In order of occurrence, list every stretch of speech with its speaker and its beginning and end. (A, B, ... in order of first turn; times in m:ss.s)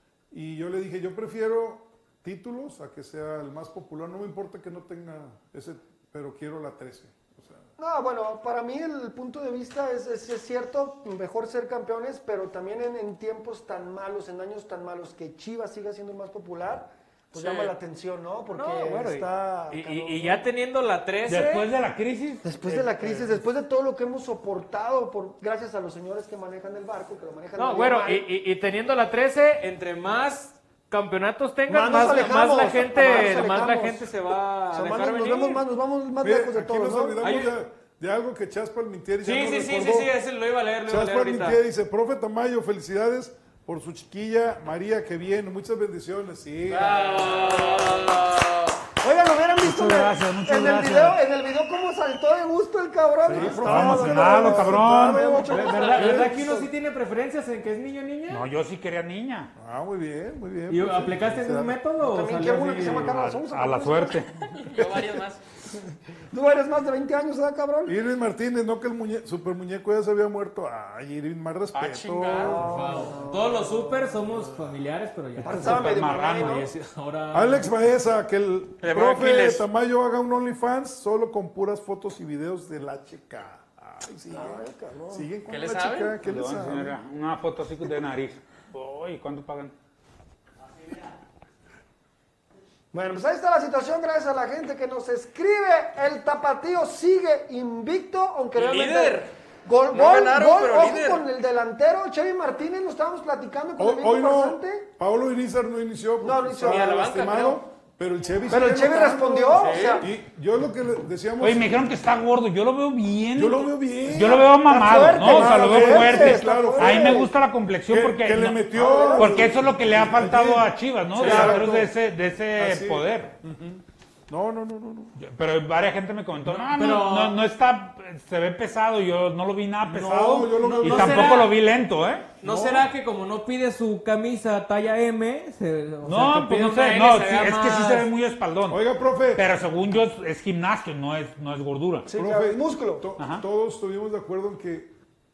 0:00.3-0:07.7 A
0:07.8-0:20.4 B
0:17.4-0:17.7 C
0:18.5-0:21.7 D
0:21.3-0:22.6 E
0:22.4-0:28.3 B
0:22.7-0:23.4 D
0:27.6-0:35.6 D
0:31.7-0:34.1 B
0:34.7-0:37.2 B
0:36.2-0:40.1 A
0:37.2-0:37.5 D
0:39.2-0:41.6 D
0:40.9-0:47.2 A
0:46.7-0:48.7 C
0:47.0-0:48.2 D
0:49.0-0:56.7 B
0:49.6-0:51.2 E
0:53.2-0:56.4 A
0:53.6-0:55.4 E
0:55.5-0:58.5 D
0:58.3-0:59.5 E
0:59.6-1:01.8 A
1:00.7-1:03.1 D
1:02.0-1:04.2 B
1:02.6-1:03.1 A
1:02.9-1:04.5 E
1:04.4-1:05.4 C
1:04.8-1:05.2 A
1:06.3-1:08.0 B
1:07.9-1:12.7 A
1:11.7-1:12.6 C
1:12.4-1:13.8 B
1:12.6-1:17.7 D
1:15.4-1:16.7 B
1:15.4-1:16.7 E
1:17.3-1:27.0 A
1:18.8-1:19.6 C
1:24.3-1:25.3 B
1:25.5-1:26.2 C
1:26.2-1:29.7 E
1:32.9-1:44.9 B
1:38.6-1:39.3 C
1:39.9-1:41.2 C
1:43.8-1:52.0 A
1:46.2-1:46.9 B
1:46.6-1:47.6 C
1:48.5-1:50.1 B
1:49.6-1:50.1 C
1:51.4-2:03.3 E
1:53.3-1:57.3 A
1:54.6-1:57.3 B
1:57.9-2:01.9 A
1:58.8-1:59.5 B
2:01.2-2:01.5 C
2:01.2-2:01.6 B
2:02.6-2:05.2 A
2:05.2-2:12.3 E
2:06.6-2:07.4 D
2:09.8-2:11.5 A
2:10.5-2:11.6 D
2:12.4-2:18.1 D
2:12.4-2:12.9 A
2:16.0-2:22.1 E
2:18.7-2:19.5 A
2:22.1-2:23.1 B
2:22.1-2:24.9 A
2:23.2-2:23.4 E